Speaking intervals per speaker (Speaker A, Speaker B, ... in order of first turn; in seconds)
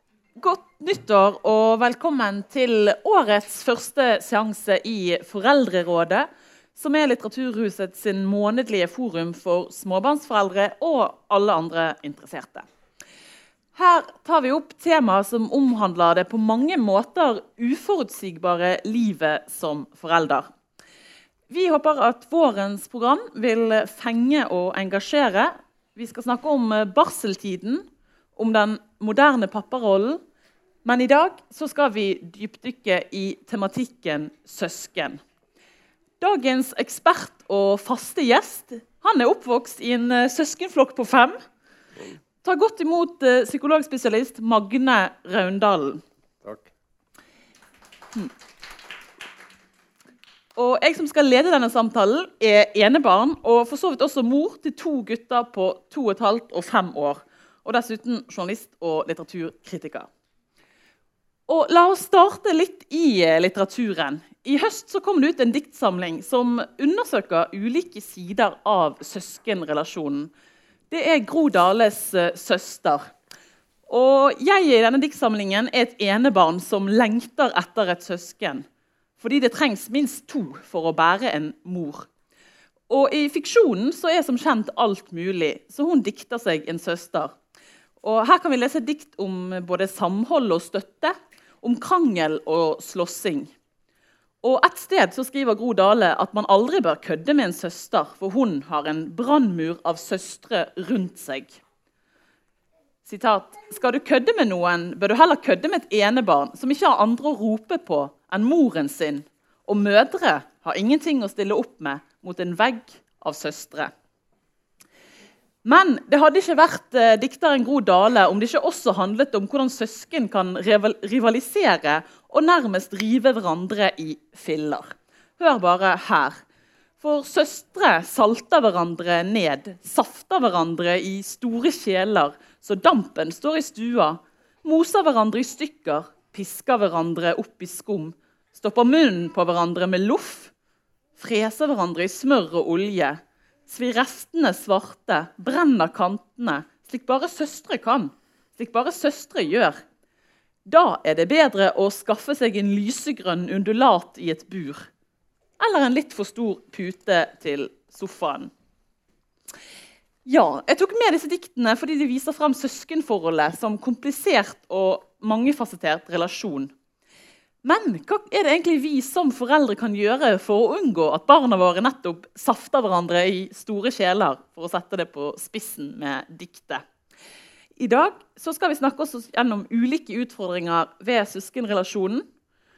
Speaker A: 0.4-12.7, 13.7-20.5, 21.5-27.8, 28.4-30.2, 30.8-35.2, 36.2-41.4, 42.4-46.0, 50.5-60.1, 61.5-70.3, 70.9-73.1, 73.9-78.7, 79.2-82.1, 82.9-87.3, 88.0-93.5, 94.4-101.6, 103.0-113.9, 115.6-126.4, 127.0-140.5, 141.2-149.8, 150.7-154.9, 155.6-158.5, 160.2-166.7, 167.6-176.8, 177.8-182.2